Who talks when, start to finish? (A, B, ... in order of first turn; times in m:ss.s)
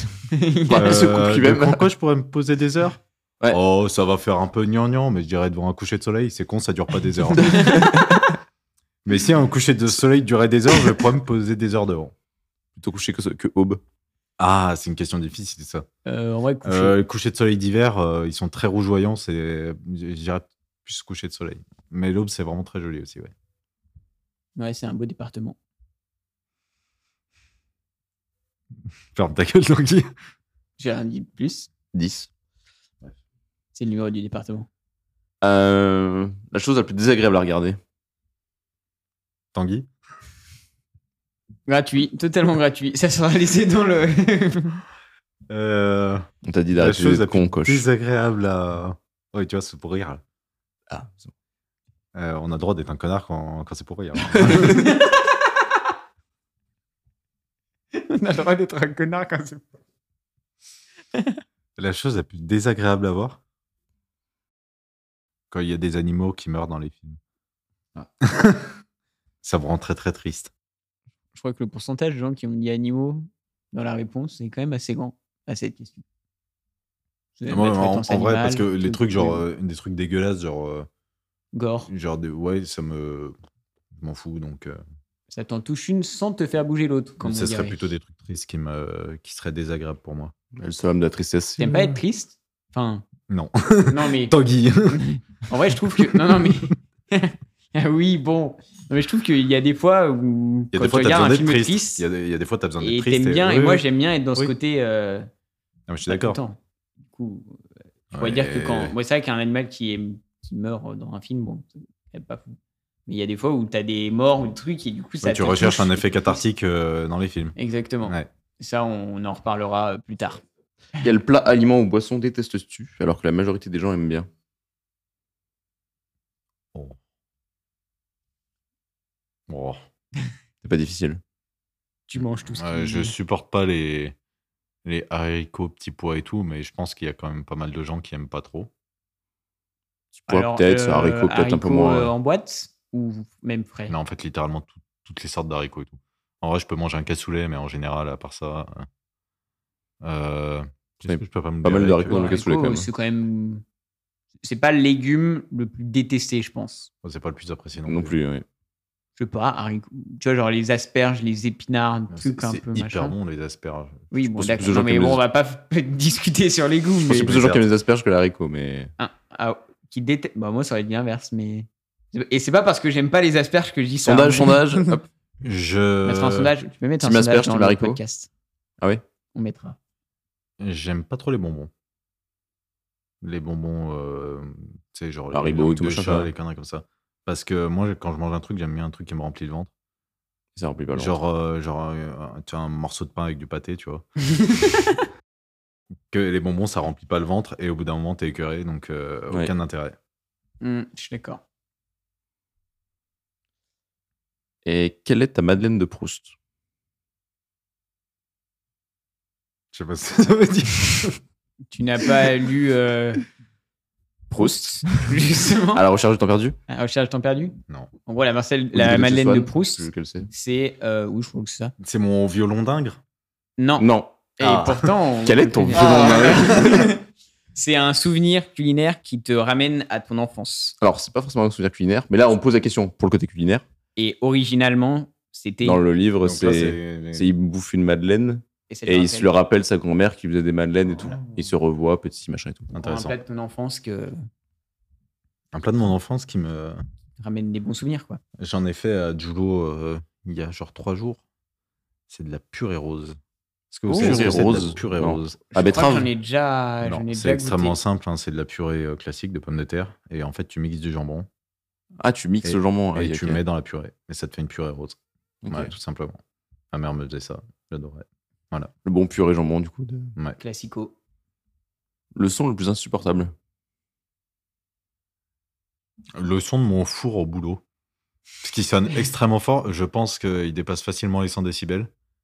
0:00.3-0:00.8 A
0:00.7-0:01.8 B
0:00.7-0:07.8 C
0:07.4-0:07.8 A
0:07.6-0:08.2 B
0:09.0-0:12.1 C
0:12.8-0:13.8 B
0:14.4-0:15.8 C
0:16.0-0:17.0 A
0:16.6-0:23.3 C
0:24.6-0:25.6 A
0:29.1-0:30.1 C
0:30.8-0:31.7 A
0:31.9-0:32.3 B
0:33.7-0:34.7 A
0:35.4-0:37.8 B
0:39.5-0:39.9 C
0:41.7-0:44.8 A
0:45.5-0:50.2 C
0:46.4-0:47.8 B
0:50.9-0:51.3 B
0:52.1-0:54.9 C
0:57.9-0:59.6 A
1:01.8-1:03.4 C
1:05.5-1:07.2 C
1:08.2-1:08.7 C
1:09.4-1:10.5 C
1:11.3-1:16.0 A
1:17.4-1:19.4 A
1:17.5-1:20.9 C
1:21.5-1:21.9 A
1:21.9-1:23.4 C
1:24.0-1:24.8 C
1:25.3-1:27.8 A
1:27.2-1:30.3 C
1:30.5-1:32.0 B
1:31.6-1:33.0 A
1:33.3-1:35.0 C
1:33.9-1:34.3 A
1:34.9-1:42.0 A
1:35.9-1:36.5 C
1:40.7-1:43.8 C
1:42.8-1:45.3 A
1:45.9-1:46.4 C
1:46.1-1:56.4 A
1:48.1-1:48.9 C
1:55.2-1:58.3 C
1:57.6-2:00.4 A
2:01.0-2:04.3 B
2:09.5-2:09.8 C
2:10.6-2:11.2 B
2:12.1-2:13.1 A
2:12.4-2:14.2 C
2:14.8-2:18.7 C
2:20.2-2:22.1 B
2:20.3-2:24.0 A
2:23.9-2:28.9 C
2:30.0-2:32.4 C
2:31.0-2:32.9 B
2:32.1-2:33.6 A
2:34.4-2:36.9 A
2:37.0-2:38.1 C
2:37.8-2:38.4 B
2:39.2-2:43.1 A
2:42.1-2:44.9 C
2:44.1-2:47.3 A
2:44.6-2:45.2 B
2:47.1-2:48.9 B
2:47.1-2:47.6 C
2:49.0-2:54.9 A
2:54.0-2:55.0 B
2:55.4-2:56.5 C
2:56.0-2:58.3 A
2:57.0-2:58.0 B
2:59.3-2:59.8 A
3:00.6-3:01.7 C
3:03.2-3:09.7 C
3:05.3-3:06.3 B
3:10.6-3:11.1 B
3:10.9-3:14.0 C
3:14.4-3:14.8 A
3:16.1-3:20.0 C
3:20.6-3:21.4 A
3:24.6-3:26.3 B
3:29.7-3:31.2 C
3:31.7-3:33.2 A
3:34.3-3:35.8 A
3:34.3-3:35.0 B
3:35.7-3:36.6 B
3:36.7-3:41.7 A
3:38.7-3:40.3 B
3:41.8-3:43.0 C
3:43.6-3:47.0 A
3:43.8-3:46.9 B
3:47.5-3:50.8 A
3:50.8-3:53.6 B
3:54.0-3:55.8 A
3:55.6-4:02.7 B
3:56.2-3:57.3 C
3:58.7-3:59.3 A
4:02.7-4:03.1 C
4:02.8-4:04.2 A
4:05.5-4:06.8 C
4:07.2-4:08.2 A
4:08.4-4:11.2 C
4:12.1-4:13.2 C
4:13.7-4:15.8 C
4:13.9-4:16.1 B
4:14.0-4:14.3 A
4:15.5-4:17.8 A
4:16.8-4:21.3 C
4:22.0-4:23.4 B
4:22.4-4:25.0 C
4:25.4-4:25.7 B
4:25.5-4:26.2 C
4:26.7-4:28.7 C
4:28.8-4:30.1 B
4:30.4-4:30.9 A
4:32.1-4:33.3 B
4:36.1-4:37.6 C
4:38.4-4:41.9 C